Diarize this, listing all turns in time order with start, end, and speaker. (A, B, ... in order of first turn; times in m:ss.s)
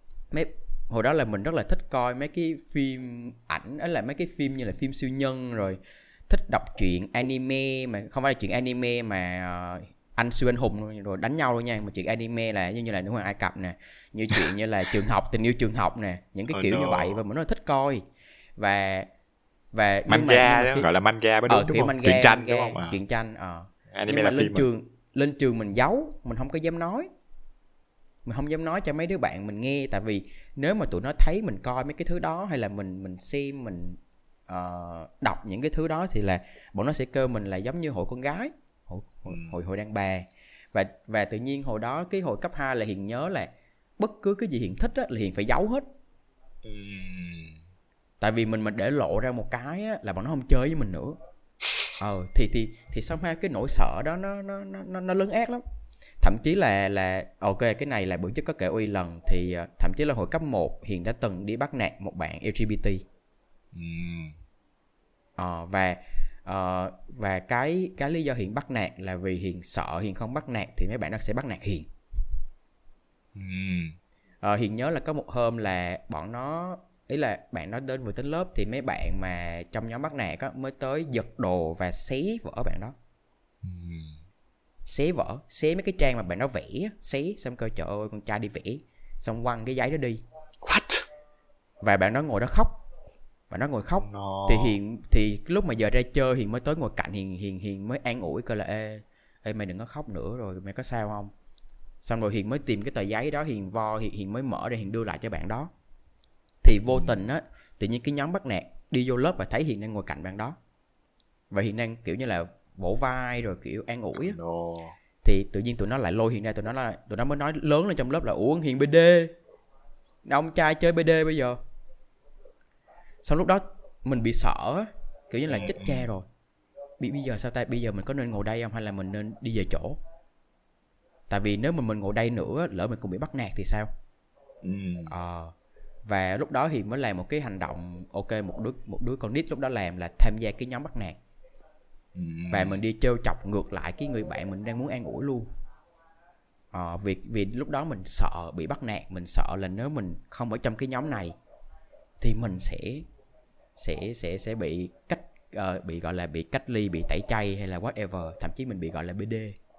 0:00.3-0:18.0 A
0:16.5-0:17.2 B
0:18.6-0:19.1 A
0:19.7-0:20.9 A
0:20.1-0:23.0 B
0:21.5-0:27.1 A
0:23.9-0:24.7 B
0:28.2-0:45.9 A
0:39.3-0:39.6 B
0:46.6-0:47.6 B
0:48.2-0:51.2 A
0:52.0-0:55.6 A
0:56.2-1:03.0 A
1:03.7-1:04.4 B
1:05.4-1:11.9 A
1:13.4-1:14.0 B
1:14.4-1:23.0 A
1:23.6-1:24.2 B
1:24.9-1:30.2 A
1:30.6-1:31.0 B
1:31.8-1:32.8 A
1:33.5-1:41.3 A
1:34.0-1:34.8 B
1:42.0-1:45.7 A
1:46.6-1:50.6 A
1:46.9-1:47.2 B
1:51.5-1:54.4 A
1:54.2-1:55.0 B
1:55.2-1:59.3 A
2:00.3-2:01.6 A
2:03.2-2:06.3 A
2:05.5-2:06.1 B
2:07.0-2:10.0 A
2:11.3-2:13.9 A
2:14.6-2:15.1 B
2:15.1-2:15.5 A
2:16.0-2:21.2 A
2:22.2-2:22.8 B
2:22.5-2:25.5 A
2:26.7-2:31.4 A
2:32.2-2:33.1 A
2:33.8-2:39.6 A